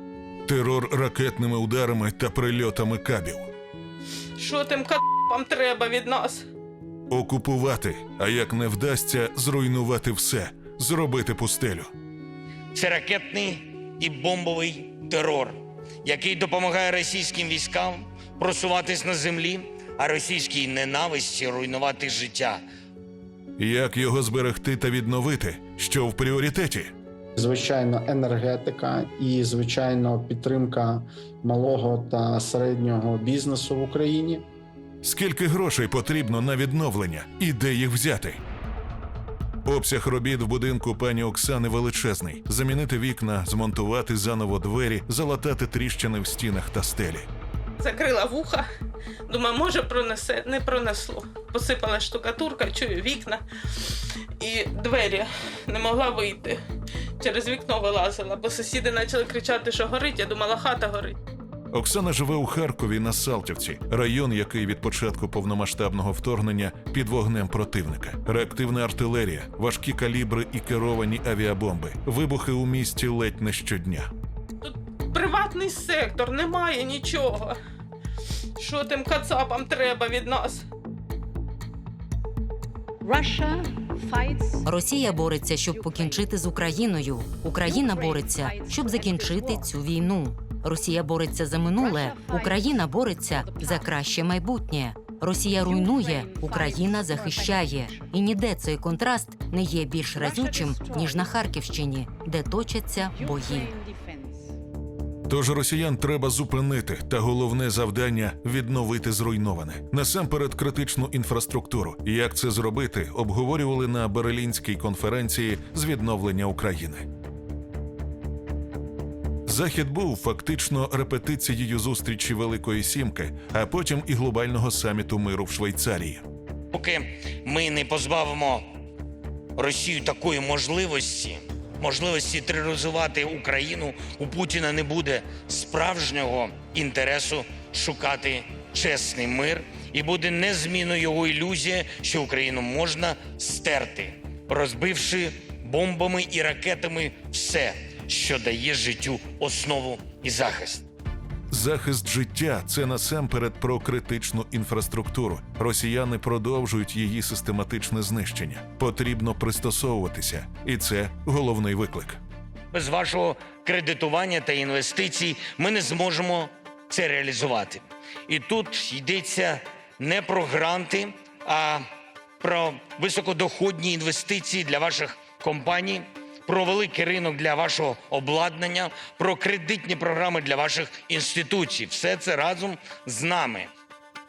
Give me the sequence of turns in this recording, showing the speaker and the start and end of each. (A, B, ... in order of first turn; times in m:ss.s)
0:00.4-0:03.5 A
0:04.4-0:06.4 B
0:07.1-0:11.9 A
0:12.7-0:22.6 C
0:23.6-0:26.9 A
0:27.4-0:34.4 D
0:35.0-0:38.4 A
0:39.6-0:47.3 A
0:47.8-0:48.6 B
0:49.3-0:56.6 B
0:57.2-1:01.2 B
1:01.7-1:14.1 A
1:14.6-1:17.6 B
1:18.6-1:20.6 B
1:23.0-1:26.3 B
1:24.6-1:43.7 E
1:27.6-1:29.7 B
1:31.7-1:34.0 B
1:35.5-1:38.1 B
1:40.1-1:41.3 B
1:43.1-1:44.5 B
1:45.3-1:57.0 A
1:59.5-2:06.2 A
2:06.7-2:08.6 C
2:09.6-2:30.8 C
2:31.5-2:42.2 A
2:42.7-2:51.8 C
2:52.4-3:03.7 C